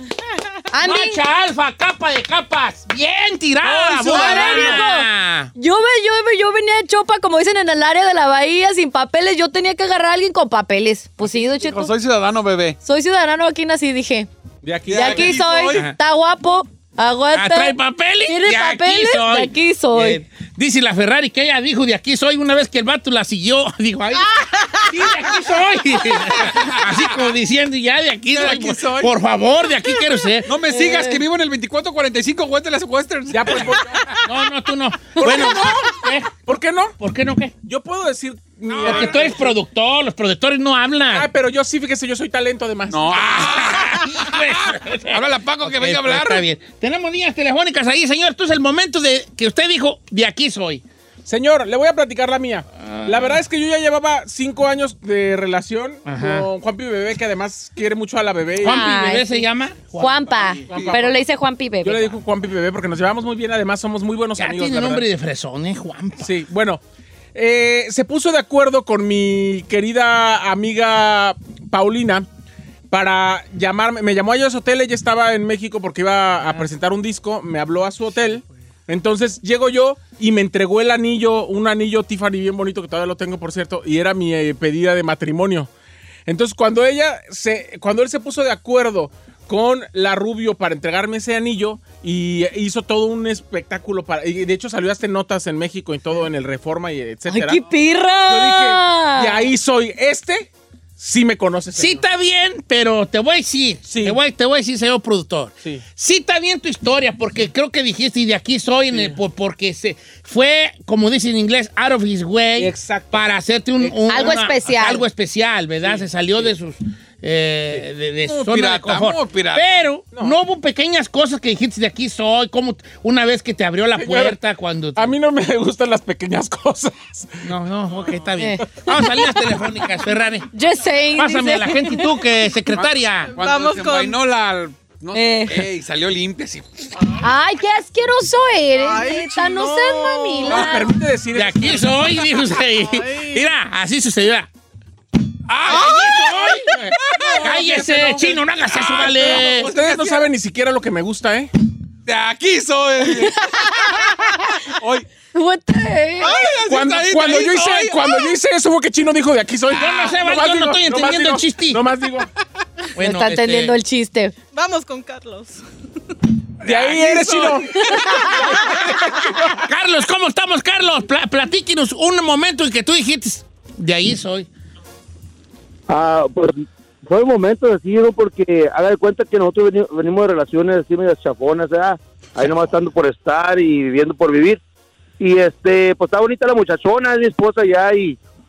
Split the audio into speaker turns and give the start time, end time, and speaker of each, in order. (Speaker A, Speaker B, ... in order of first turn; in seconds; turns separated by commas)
Speaker A: 0.7-1.2, Speaker B: 0.8-5.5, Speaker C: 3.7-4.8, Speaker A: 4.0-11.9, Speaker D: 11.2-12.8, Speaker A: 12.8-14.3, Speaker C: 14.6-15.4, Speaker D: 14.9-15.8, Speaker A: 14.9-20.2, Speaker B: 15.7-16.0, Speaker B: 17.3-30.5, Speaker E: 24.4-24.9, Speaker D: 26.4-27.2, Speaker D: 28.3-29.1, Speaker D: 30.4-34.2, Speaker A: 30.7-31.1, Speaker C: 33.3-34.0, Speaker B: 34.2-36.4, Speaker D: 35.2-35.8, Speaker C: 35.2-35.8, Speaker C: 36.5-37.0, Speaker B: 37.0-37.5, Speaker C: 37.6-39.5, Speaker D: 38.7-39.4, Speaker B: 38.8-41.3, Speaker C: 41.1-43.4, Speaker D: 42.9-46.4, Speaker B: 43.2-50.8, Speaker C: 51.3-58.9, Speaker B: 52.8-53.4, Speaker B: 56.1-56.5, Speaker B: 58.6-61.0, Speaker A: 58.6-59.5, Speaker A: 60.0-62.1, Speaker C: 60.7-61.2, Speaker C: 61.8-65.0, Speaker B: 64.4-66.3, Speaker C: 66.2-66.8, Speaker C: 67.3-72.3, Speaker C: 72.9-85.7, Speaker C: 86.3-97.7, Speaker A: 97.3-99.5, Speaker C: 98.3-102.0, Speaker B: 101.8-125.1, Speaker C: 103.9-104.2, Speaker C: 108.9-109.2, Speaker C: 112.6-113.3, Speaker C: 113.8-114.4, Speaker A: 114.1-115.0, Speaker C: 115.8-116.5, Speaker D: 118.3-119.7, Speaker C: 124.0-124.4, Speaker C: 125.0-127.4, Speaker B: 127.4-130.5, Speaker A: 128.4-129.3, Speaker A: 130.5-132.1, Speaker B: 131.2-133.3, Speaker D: 132.7-136.9, Speaker E: 133.3-134.2, Speaker A: 135.1-135.7, Speaker A: 137.2-140.9, Speaker E: 138.8-140.4, Speaker C: 140.0-142.1, Speaker B: 141.3-144.5, Speaker E: 142.9-143.4, Speaker D: 145.5-147.8, Speaker B: 145.6-149.7, Speaker C: 147.2-148.4, Speaker D: 148.7-150.3, Speaker C: 148.9-151.5, Speaker D: 152.1-155.1, Speaker A: 153.0-154.1, Speaker A: 155.3-156.4, Speaker D: 156.2-158.1, Speaker C: 156.7-162.3, Speaker B: 159.7-161.8, Speaker B: 163.0-163.8, Speaker A: 163.0-164.3, Speaker E: 164.5-165.6, Speaker D: 166.6-168.7, Speaker C: 166.7-168.5, Speaker E: 168.2-169.3, Speaker B: 169.6-174.5, Speaker F: 175.9-184.6, Speaker F: 185.2-188.2